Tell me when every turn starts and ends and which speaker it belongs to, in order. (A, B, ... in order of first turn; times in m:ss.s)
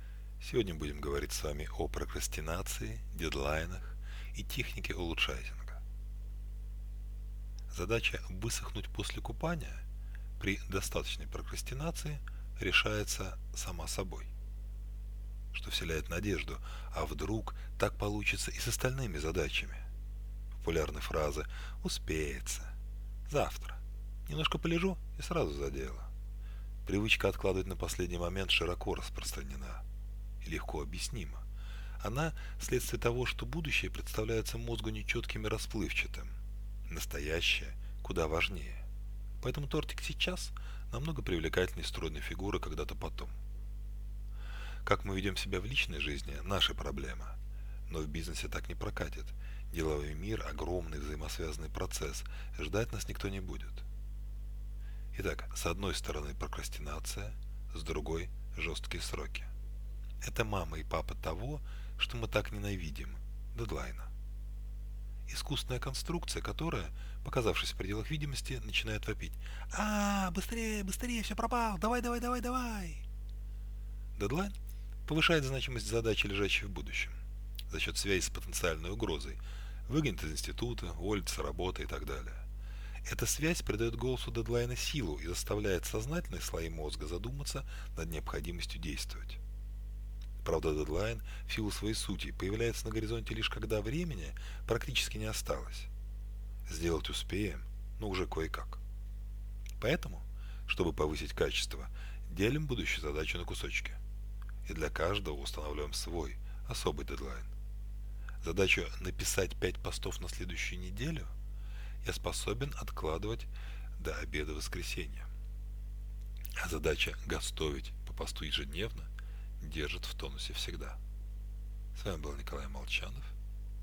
0:00.4-0:05.8 A
0:07.7-0:09.8 A
0:10.4-0:14.3 A
0:15.5-0:19.8 A
0:20.6-0:22.7 A
0:23.3-0:26.1 A
0:26.8-0:29.8 A
0:30.4-0:31.4 A
0:32.0-0:36.4 A
0:36.9-0:38.8 A
0:39.4-0:43.4 A
0:44.8-0:53.8 A
0:55.1-0:59.5 A
1:00.2-1:04.1 A
1:05.3-1:13.0 A
1:14.2-1:14.5 A
1:15.0-1:22.4 A
1:23.0-1:29.4 A
1:30.4-1:35.9 A
1:36.6-1:38.8 A
1:39.8-1:44.0 A
1:44.6-1:47.5 A
1:48.4-1:51.3 A
1:52.0-1:55.3 A
1:56.6-1:59.1 A
1:59.6-2:01.0 A
2:01.9-2:03.3 A